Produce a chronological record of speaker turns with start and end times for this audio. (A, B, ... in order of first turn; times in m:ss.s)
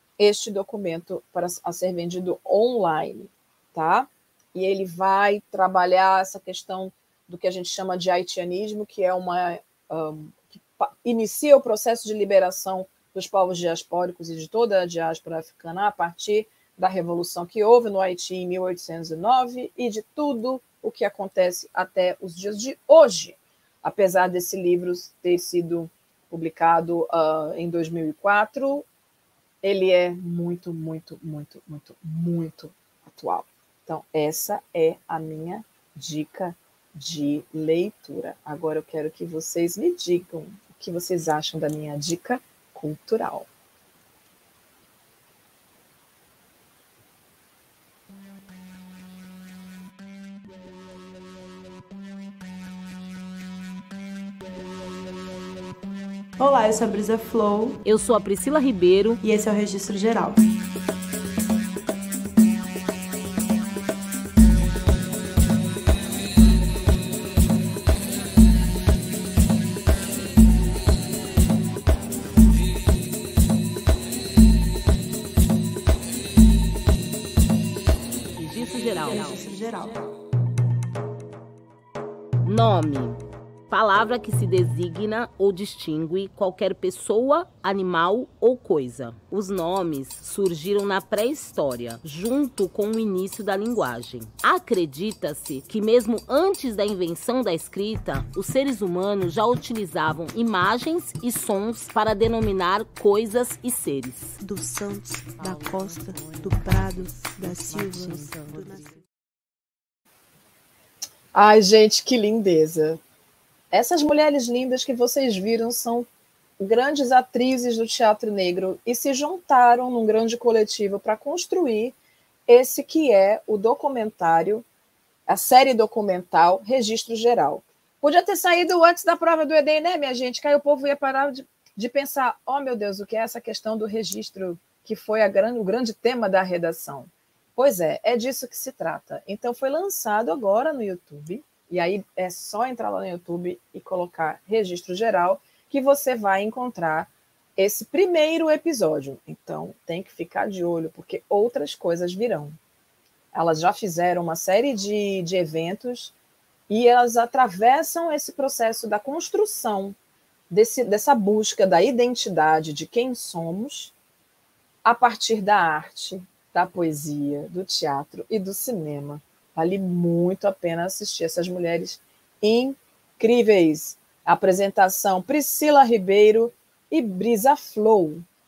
0:00.2-0:28.8 A
0:29.6-0:43.5 A
0:56.4-0:57.8 B
0:57.8-0:59.2 C
0:59.2-1:00.4 B
1:18.4-1:19.4 C
1:19.0-1:20.0 B
1:22.4-1:44.4 C
1:44.4-1:48.9 B
1:51.3-1:53.0 A
1:53.7-1:56.1 A
1:56.6-2:01.9 A
2:02.5-2:04.6 A
2:05.3-2:32.6 A
2:33.3-2:36.1 A
2:36.7-2:40.0 A
2:40.5-2:43.9 A
2:44.8-2:58.2 A